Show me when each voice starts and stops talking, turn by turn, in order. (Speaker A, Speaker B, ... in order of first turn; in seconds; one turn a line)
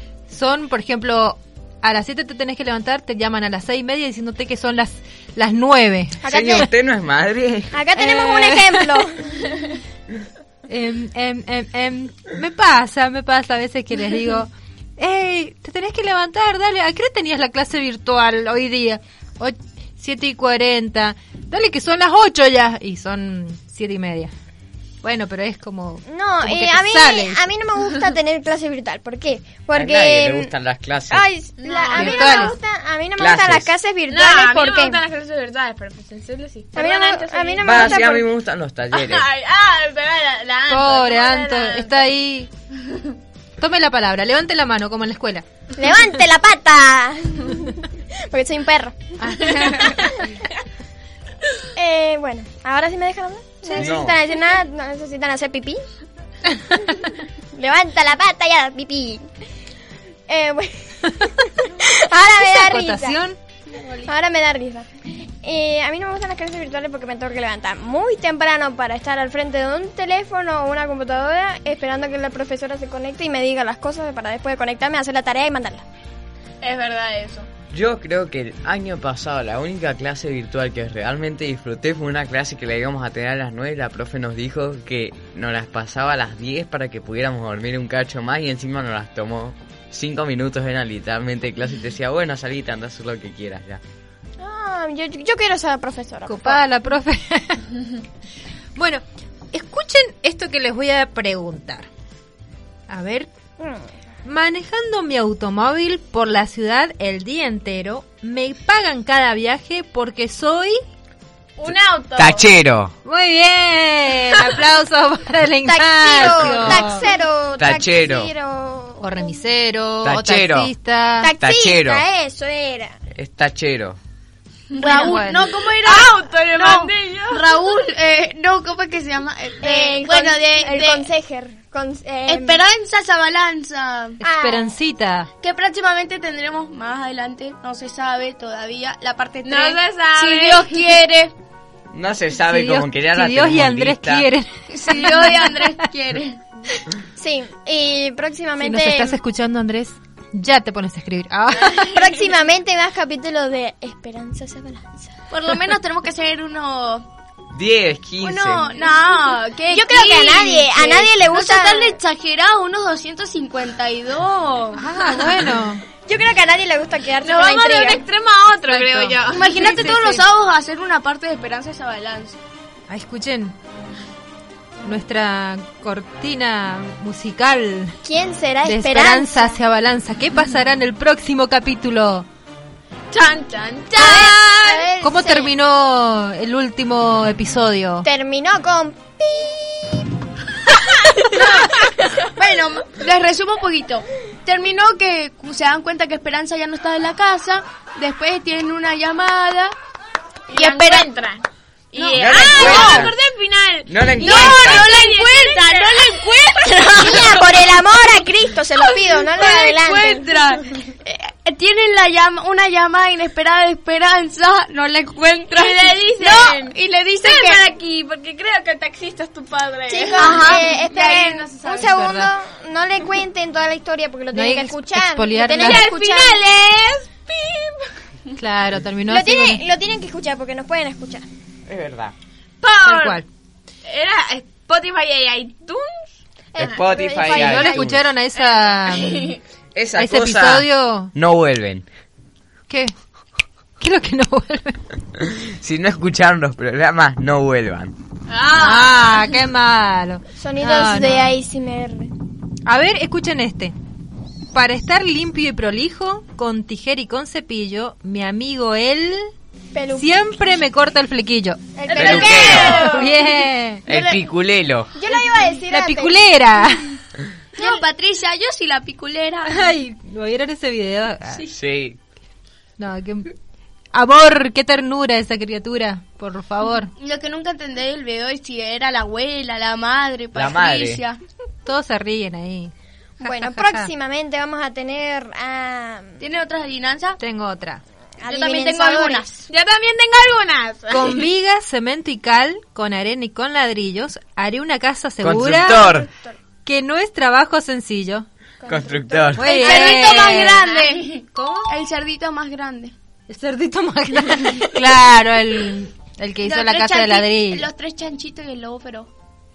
Speaker A: 0.3-6.3
Speaker B: 6.2-6.7
Speaker C: 6.2-7.8
Speaker B: 7.7-9.5
Speaker A: 7.9-9.0
Speaker A: 10.7-24.3
Speaker A: 25.0-27.4
Speaker B: 26.1-30.5
Speaker C: 29.7-31.2
Speaker B: 31.1-35.0
Speaker D: 31.6-32.4
Speaker A: 31.9-32.5
Speaker C: 33.2-33.7
Speaker D: 34.1-38.0
Speaker B: 36.7-38.3
Speaker C: 37.6-39.2
Speaker D: 38.9-42.0
Speaker A: 40.7-42.5
Speaker A: 43.6-45.4
Speaker B: 45.8-50.3
Speaker A: 49.2-50.0
Speaker B: 51.7-55.8
Speaker C: 53.8-54.2
Speaker B: 57.5-59.3
Speaker B: 60.3-63.2
Speaker A: 62.4-63.4
Speaker B: 64.0-64.9
Speaker B: 65.4-75.8
Speaker D: 76.6-77.5
Speaker C: 77.7-93.8
Speaker B: 94.4-96.6
Speaker A: 96.2-97.7
Speaker A: 98.8-101.9
Speaker A: 102.9-103.3
Speaker B: 103.6-103.9
Speaker A: 104.2-110.8
Speaker D: 111.6-112.5
Speaker C: 111.7-112.9
Speaker A: 113.0-117.0
Speaker B: 115.6-119.4
Speaker C: 116.2-116.9
Speaker C: 117.6-118.3
Speaker A: 119.0-121.3
Speaker C: 120.0-120.7
Speaker B: 121.2-123.0
Speaker C: 121.4-122.0
Speaker C: 123.1-124.0
Speaker D: 124.7-127.8
Speaker E: 124.8-131.1
Speaker A: 124.8-125.4
Speaker B: 129.6-132.6
Speaker E: 132.3-134.2
Speaker A: 134.2-135.3
Speaker B: 134.2-134.7
Speaker E: 135.4-141.3
Speaker D: 139.4-140.9
Speaker C: 141.9-144.3
Speaker A: 142.5-145.5
Speaker E: 144.7-146.4
Speaker B: 147.2-149.2
Speaker A: 148.6-151.9
Speaker B: 151.9-155.1
Speaker E: 155.3-157.1
Speaker C: 157.5-158.7
Speaker E: 158.2-164.8
Speaker B: 159.7-161.9
Speaker A: 164.8-165.8
Speaker B: 166.1-168.0
Speaker D: 167.2-169.5
Speaker A: 168.7-170.2
Speaker E: 169.3-172.4
Speaker A: 172.9-173.5
Speaker A: 174.8-178.0
Speaker B: 178.0-179.6
Speaker A: 178.6-182.3
Speaker D: 183.1-184.9
Speaker B: 184.0-185.5
Speaker A: 185.0-188.1
Speaker B: 188.0-190.1
Speaker E: 191.4-191.7
Speaker E: 192.3-199.7
Speaker E: 200.5-201.1
Speaker D: 200.5-207.3
Speaker E: 201.9-203.1
Speaker C: 202.1-203.1
Speaker C: 203.9-204.9
Speaker E: 204.2-207.5
Speaker B: 207.0-210.3
Speaker E: 209.1-217.7
Speaker D: 215.5-221.9
Speaker E: 219.9-221.5
Speaker B: 219.9-226.4
Speaker A: 221.7-222.3
Speaker A: 224.3-225.9
Speaker D: 225.5-227.8
Speaker A: 228.3-229.6
Speaker B: 229.1-231.3
Speaker C: 231.7-232.1
Speaker D: 232.6-233.2
Speaker A: 232.8-233.2
Speaker D: 233.9-236.1
Speaker B: 236.5-237.9
Speaker C: 236.6-238.0
Speaker A: 237.2-239.3
Speaker D: 238.9-239.4
Speaker C: 239.7-241.9
Speaker A: 240.0-241.1
Speaker A: 242.7-242.9
Speaker A: 243.8-244.8
Speaker C: 245.2-247.9
Speaker D: 248.3-249.2
Speaker A: 248.5-251.3
Speaker B: 250.4-252.1
Speaker A: 252.7-253.7
Speaker A: 254.5-259.3
Speaker B: 259.7-260.1
Speaker A: 259.9-261.6
Speaker B: 261.8-263.1
Speaker E: 261.9-263.1
Speaker C: 261.9-262.9
Speaker D: 262.1-262.7
Speaker A: 262.8-263.8
Speaker C: 263.9-264.9
Speaker B: 264.9-266.2
Speaker A: 265.7-267.0
Speaker E: 267.6-269.7
Speaker A: 269.5-271.4
Speaker C: 271.5-272.0
Speaker A: 272.8-273.3
Speaker A: 273.9-276.9
Speaker E: 277.0-281.2
Speaker C: 280.3-281.0
Speaker A: 281.6-282.7
Speaker B: 283.2-286.2
Speaker A: 283.2-283.9
Speaker E: 286.2-287.2
Speaker A: 287.2-287.8
Speaker B: 288.2-289.4
Speaker E: 288.2-289.3
Speaker D: 289.5-291.3
Speaker A: 290.9-296.0
Speaker C: 295.2-296.1
Speaker B: 295.7-296.3
Speaker A: 296.6-298.2
Speaker B: 298.6-300.4
Speaker C: 298.7-299.5
Speaker A: 299.4-300.7
Speaker E: 299.4-302.9
Speaker A: 301.3-301.7
Speaker A: 303.3-307.6
Speaker E: 306.4-309.1